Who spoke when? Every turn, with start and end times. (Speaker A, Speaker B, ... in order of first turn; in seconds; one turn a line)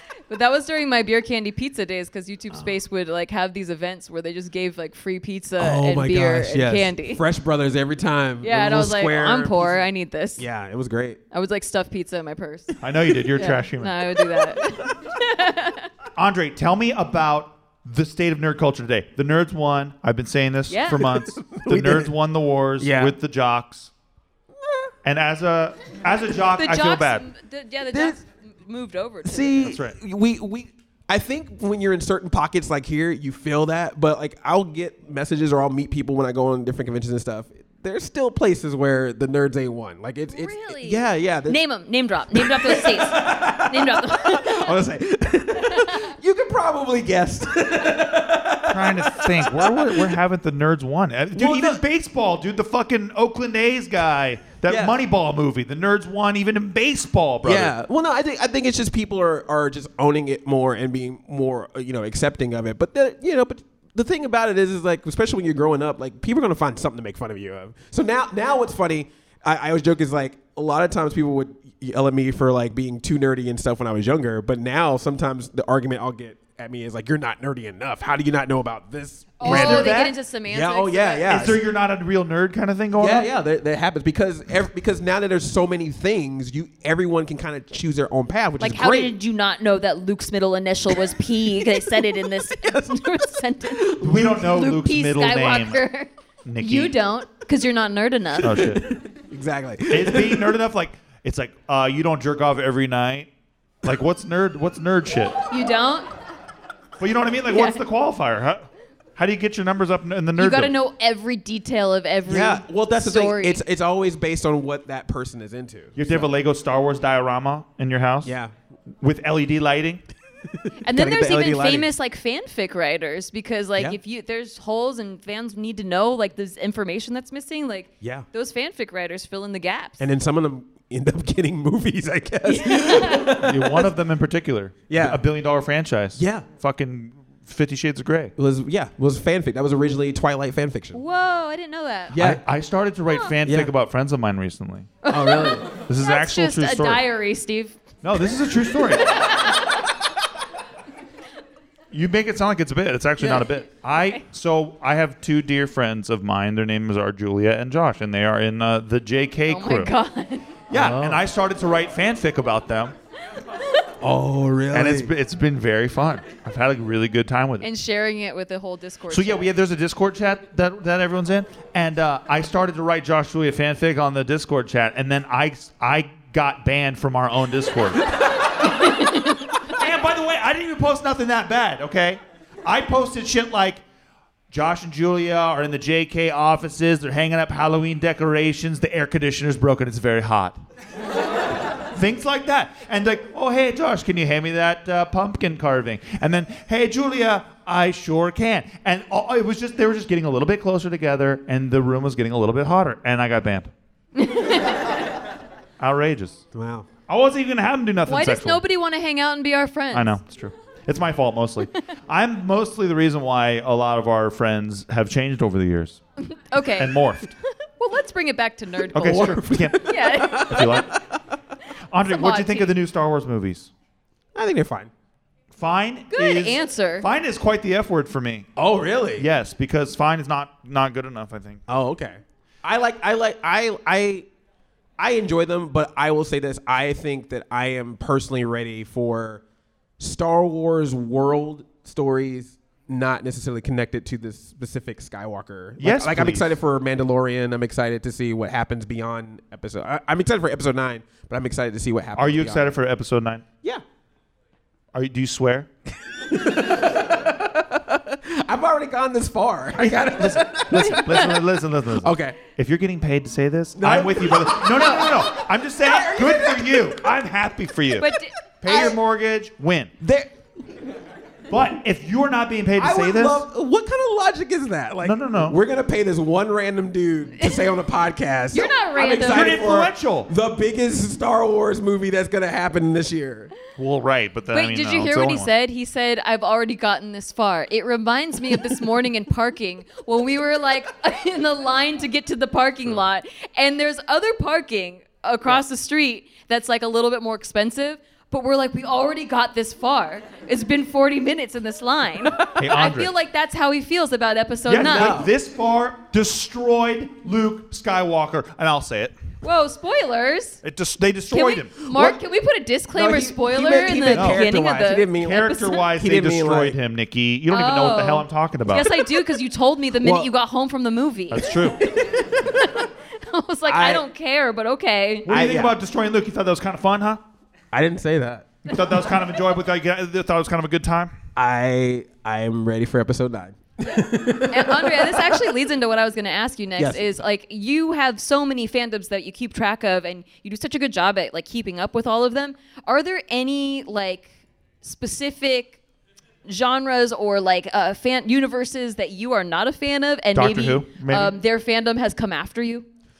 Speaker A: 0.3-7.2
Speaker B: 5.6-9.8
Speaker A: 8.4-10.4
Speaker B: 10.4-11.2
Speaker A: 11.3-12.8
Speaker C: 12.8-14.0
Speaker A: 13.3-15.9
Speaker B: 14.3-14.7
Speaker C: 16.2-23.9
Speaker A: 20.7-21.1
Speaker B: 21.2-22.1
Speaker B: 22.8-23.2
Speaker B: 24.6-24.9
Speaker C: 25.0-27.2
Speaker A: 26.6-29.8
Speaker B: 27.9-28.2
Speaker B: 29.2-41.6
Speaker C: 29.6-30.0
Speaker A: 40.3-44.8
Speaker B: 42.3-50.1
Speaker A: 45.7-46.0
Speaker C: 48.7-57.7
Speaker B: 51.3-51.8
Speaker B: 54.7-55.0
Speaker B: 57.4-81.6
Speaker A: 79.4-81.4
Speaker C: 79.4-80.2
Speaker C: 81.3-83.3
Speaker B: 83.0-89.1
Speaker A: 88.6-98.7
Speaker B: 91.8-92.7
Speaker B: 93.8-94.1
Speaker C: 94.0-95.8
Speaker C: 96.5-97.0
Speaker C: 98.4-98.8
Speaker B: 98.6-100.6
Speaker C: 99.9-103.3
Speaker C: 103.8-105.4
Speaker A: 105.5-106.1
Speaker C: 107.0-110.7
Speaker A: 107.5-107.8
Speaker A: 110.4-113.6
Speaker B: 112.3-116.3
Speaker C: 116.0-118.3
Speaker B: 118.2-118.5
Speaker C: 119.0-120.0
Speaker B: 120.5-121.9
Speaker A: 120.8-130.1
Speaker B: 128.0-128.3
Speaker B: 130.0-133.9
Speaker A: 132.4-133.4
Speaker C: 133.4-138.3
Speaker B: 134.9-135.2
Speaker B: 136.2-136.5
Speaker B: 138.4-141.0
Speaker A: 140.9-142.2
Speaker B: 142.1-142.4
Speaker C: 142.2-144.9
Speaker A: 143.1-143.4
Speaker B: 143.4-143.7
Speaker A: 145.0-147.8
Speaker B: 145.1-145.7
Speaker C: 145.9-147.0
Speaker C: 148.0-149.2
Speaker A: 149.0-149.9
Speaker C: 151.9-159.9
Speaker A: 153.2-153.5
Speaker A: 159.5-160.5
Speaker C: 160.7-162.9
Speaker B: 160.7-161.2
Speaker B: 164.0-165.1
Speaker C: 164.7-167.7
Speaker A: 167.6-169.5
Speaker C: 169.1-178.9
Speaker A: 178.8-179.5
Speaker C: 179.7-183.8
Speaker C: 184.5-190.6
Speaker C: 191.9-203.7
Speaker A: 204.2-205.2
Speaker C: 205.8-206.4
Speaker B: 206.5-206.9
Speaker C: 207.1-208.6
Speaker A: 208.1-210.2
Speaker C: 209.9-216.0
Speaker A: 216.2-217.0
Speaker C: 216.8-217.3
Speaker A: 217.6-220.8
Speaker C: 218.9-219.9
Speaker B: 219.0-221.2
Speaker C: 220.5-220.9
Speaker C: 221.9-223.7
Speaker A: 222.1-222.7
Speaker B: 224.3-224.9
Speaker C: 225.5-228.5
Speaker A: 226.1-227.1
Speaker B: 228.6-229.3
Speaker C: 229.2-231.6
Speaker B: 231.7-234.3
Speaker B: 235.0-239.4
Speaker B: 240.0-252.7
Speaker C: 245.8-246.6
Speaker C: 252.2-253.4
Speaker C: 254.9-255.7
Speaker B: 256.1-261.4
Speaker C: 260.1-269.9
Speaker B: 262.0-262.4
Speaker B: 263.8-267.2
Speaker A: 268.0-268.9
Speaker B: 268.7-268.9
Speaker B: 270.0-270.8
Speaker C: 271.5-273.5
Speaker B: 272.8-283.5
Speaker C: 275.0-275.6
Speaker A: 277.4-277.7
Speaker A: 278.5-279.5
Speaker C: 279.2-280.3
Speaker C: 283.8-285.5
Speaker A: 284.5-305.2
Speaker C: 302.6-303.1
Speaker C: 304.7-309.2
Speaker B: 304.8-305.3
Speaker A: 309.4-310.6
Speaker C: 310.6-311.8
Speaker A: 311.3-315.9
Speaker B: 311.9-312.2
Speaker B: 312.9-316.8
Speaker C: 314.1-314.5
Speaker C: 315.1-318.9
Speaker A: 317.5-325.3
Speaker B: 320.0-320.3
Speaker C: 321.3-321.8
Speaker B: 321.9-322.2
Speaker B: 323.7-324.0
Speaker C: 325.3-327.2
Speaker B: 325.3-325.8
Speaker B: 327.7-328.6
Speaker C: 328.7-331.1
Speaker B: 331.4-335.4
Speaker A: 334.5-344.3
Speaker B: 336.8-337.1
Speaker A: 344.8-345.8
Speaker A: 346.5-352.9
Speaker C: 350.3-351.4